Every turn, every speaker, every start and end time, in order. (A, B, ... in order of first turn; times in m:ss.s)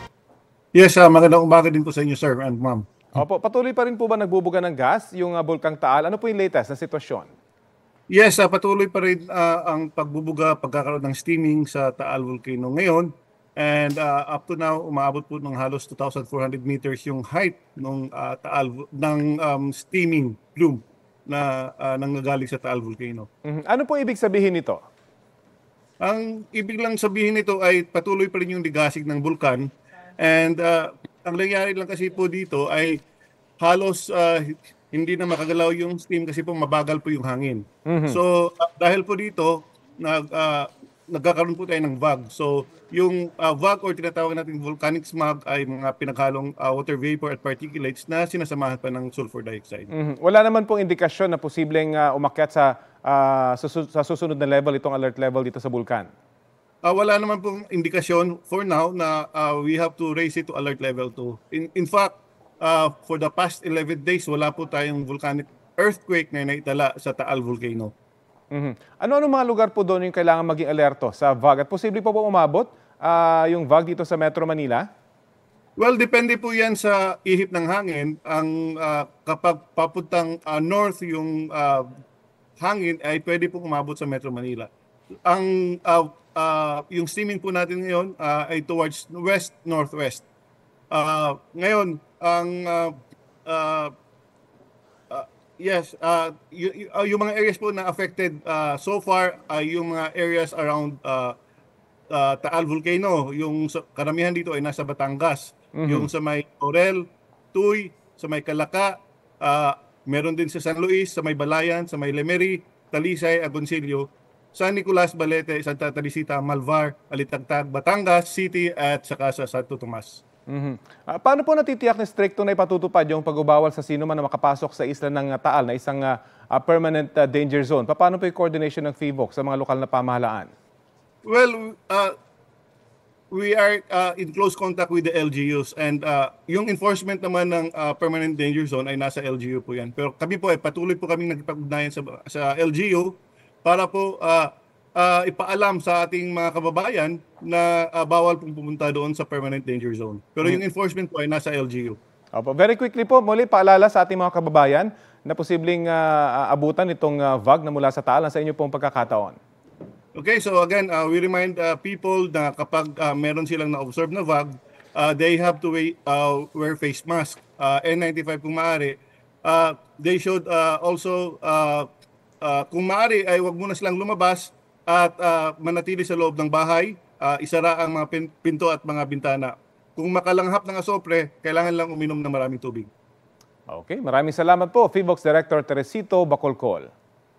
0:00.7-0:02.8 A
0:03.1-0:07.3 B
0:08.1-0:23.3 A
0:23.4-0:24.8 B
0:26.0-0:29.7 A
0:30.2-0:33.0 A
0:33.6-0:49.9 A
0:37.8-0:38.2 B
0:49.9-0:56.1 B
0:56.8-1:07.9 A
1:08.5-1:14.8 B
1:15.8-1:21.9 A
1:22.6-1:24.7 A
1:25.2-1:30.2 A
1:30.9-1:33.9 A
1:35.1-1:41.3 A
1:42.1-2:00.2 A
1:45.8-1:46.1 B
2:00.5-2:10.5 B
2:11.2-2:12.1 A
2:13.3-2:32.0 A
2:32.4-2:39.4 B
2:40.1-2:51.9 A
2:52.4-3:02.9 A
3:03.7-3:06.9 B